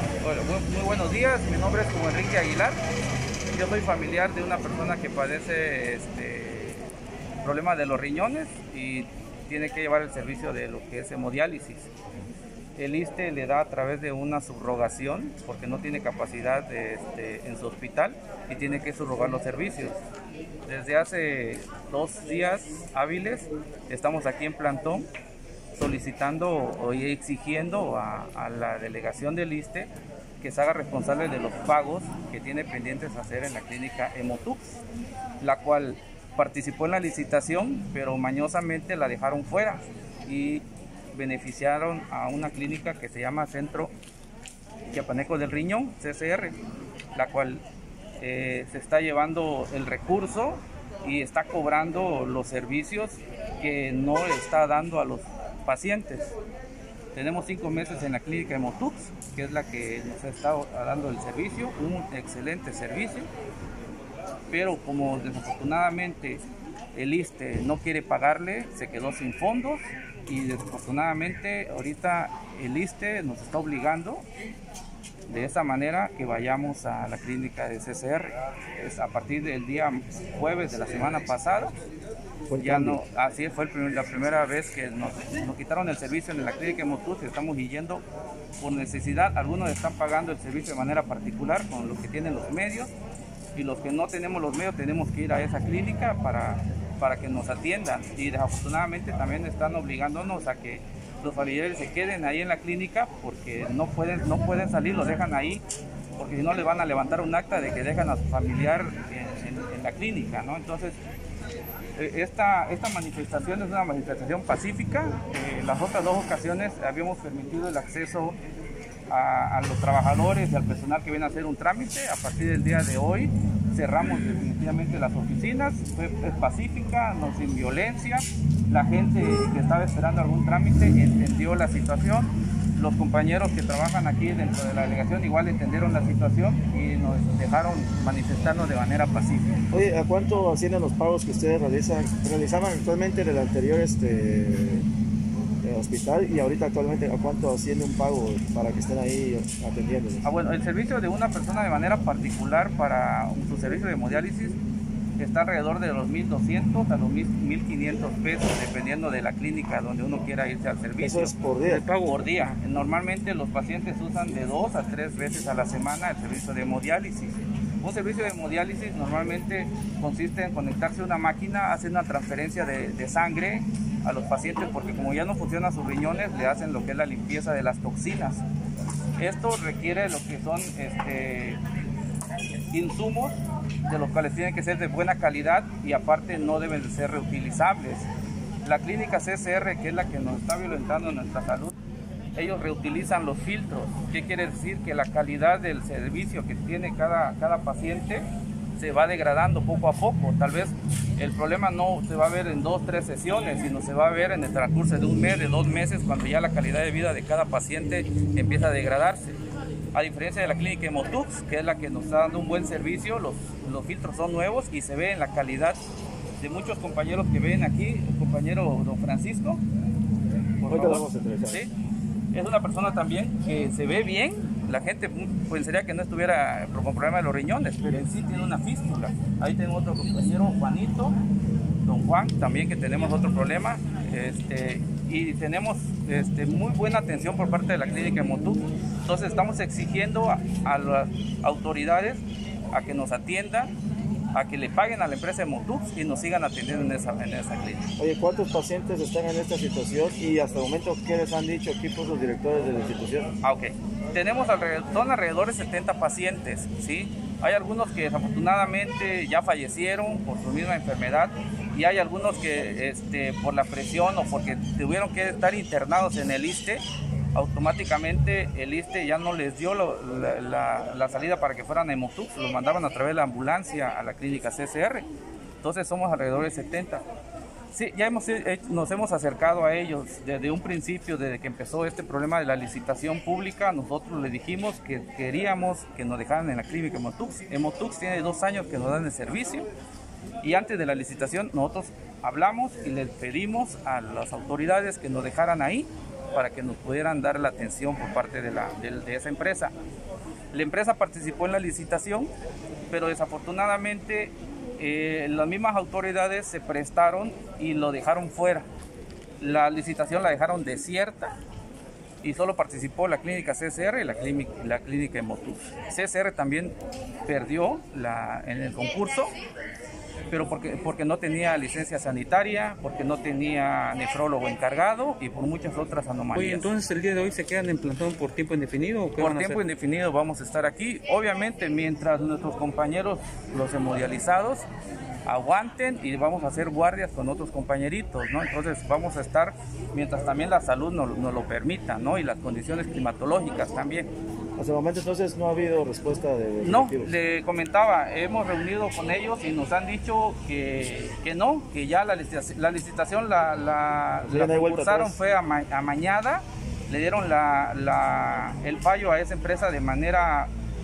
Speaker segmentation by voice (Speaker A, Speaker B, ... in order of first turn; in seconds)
Speaker A: 0.2-2.8, 3.5-6.9, 7.4-11.9, 12.8-20.0, 20.7-25.1, 25.7-29.9, 30.4-34.6, 35.4-43.9, 44.9-46.6, 47.1-47.6, 48.2-56.3, 57.1-63.3, 64.5-66.4, 66.9-74.2, 75.3-81.7, 82.6-88.0, 88.6-92.9, 93.5-105.6, 106.2-111.0, 112.0-118.4, 119.1-139.6, 150.2-154.6, 155.2-161.3, 162.0-178.4, 179.2-181.6, 182.7-188.1, 188.7-191.8, 192.4-198.2, 198.8-209.4, 209.9-215.8, 216.4-219.6, 220.6-221.7, 222.3-231.2, 231.8-243.7, 244.3-247.9, 253.4-266.8, 267.3-275.1, 275.6-277.0, 277.7-289.7, 290.4-299.7, 300.5-302.3, 302.9-308.6, 309.4-311.3, 312.2-316.7, 317.3-319.3, 320.3-326.6, 329.2-334.6, 335.2-344.1, 346.6-360.5
Speaker B: 82.5-83.0, 139.7-144.8, 145.6-150.3, 161.0-161.8, 220.7-221.6, 248.0-253.3, 344.6-347.1, 354.3-355.2
Speaker C: 161.6-162.6, 326.3-329.6